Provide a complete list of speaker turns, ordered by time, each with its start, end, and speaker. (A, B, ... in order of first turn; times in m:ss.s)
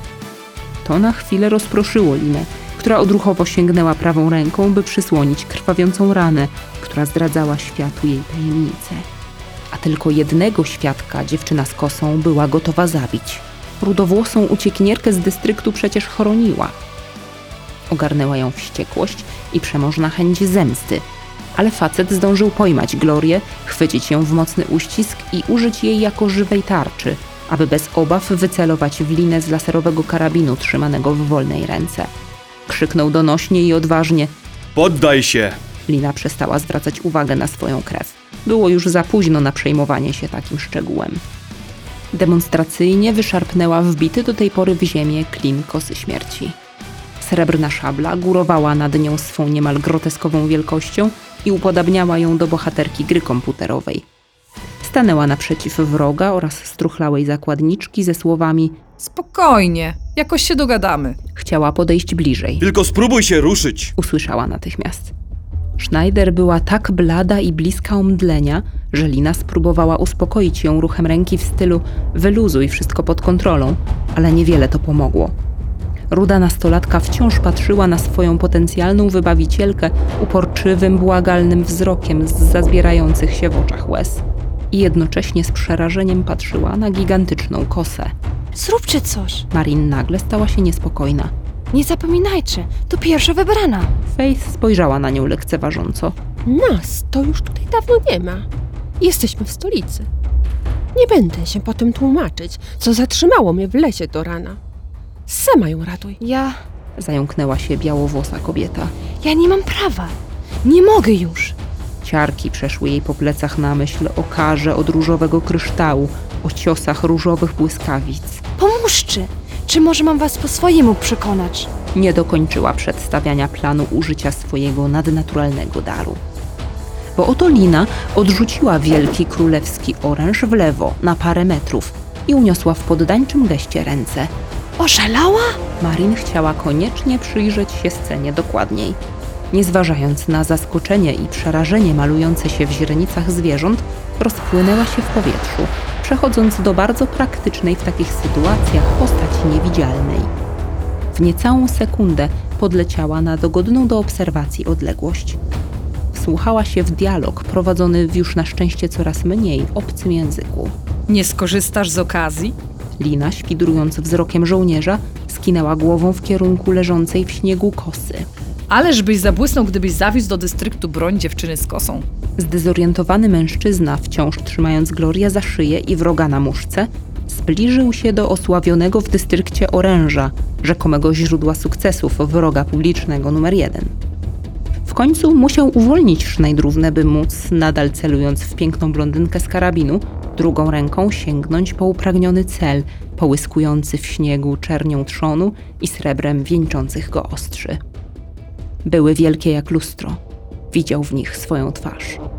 0:00.8-0:09.0 A
0:09.7-0:16.8 A
0:17.9-0:21.0 A
0:21.6-0:32.1 A
0:32.7-0:34.3 A
0:34.8-0:35.6 B
0:35.9-0:41.2 A
0:42.1-0:46.6 A
0:47.2-0:54.0 A
0:54.8-0:58.8 A
0:59.0-1:01.2 C
1:01.3-1:02.6 A
1:02.6-1:03.9 B
1:04.0-1:05.1 A
1:05.8-1:15.3 A
1:16.1-1:28.1 A
1:28.5-1:29.5 D
1:29.5-1:31.3 A
1:31.7-1:34.0 D
1:34.1-1:36.2 A
1:36.4-1:38.5 E
1:39.0-1:40.1 E
1:40.9-1:44.6 E
1:45.3-1:46.2 E
1:46.2-1:46.6 D
1:47.0-1:48.9 A
1:49.2-1:51.6 D
1:52.0-1:58.4 A
1:58.6-2:01.7 D
2:01.9-2:06.2 A
2:07.2-2:14.3 A
2:14.8-2:15.6 D
2:15.8-2:19.0 A
2:19.5-2:30.3 A
2:31.1-2:35.4 A
2:36.1-2:40.7 A
2:41.1-2:42.6 C
2:43.0-2:48.3 A
2:48.7-2:52.0 C
2:52.4-3:03.9 A
3:04.9-3:17.8 A
3:18.8-3:20.2 A
3:20.7-3:22.2 A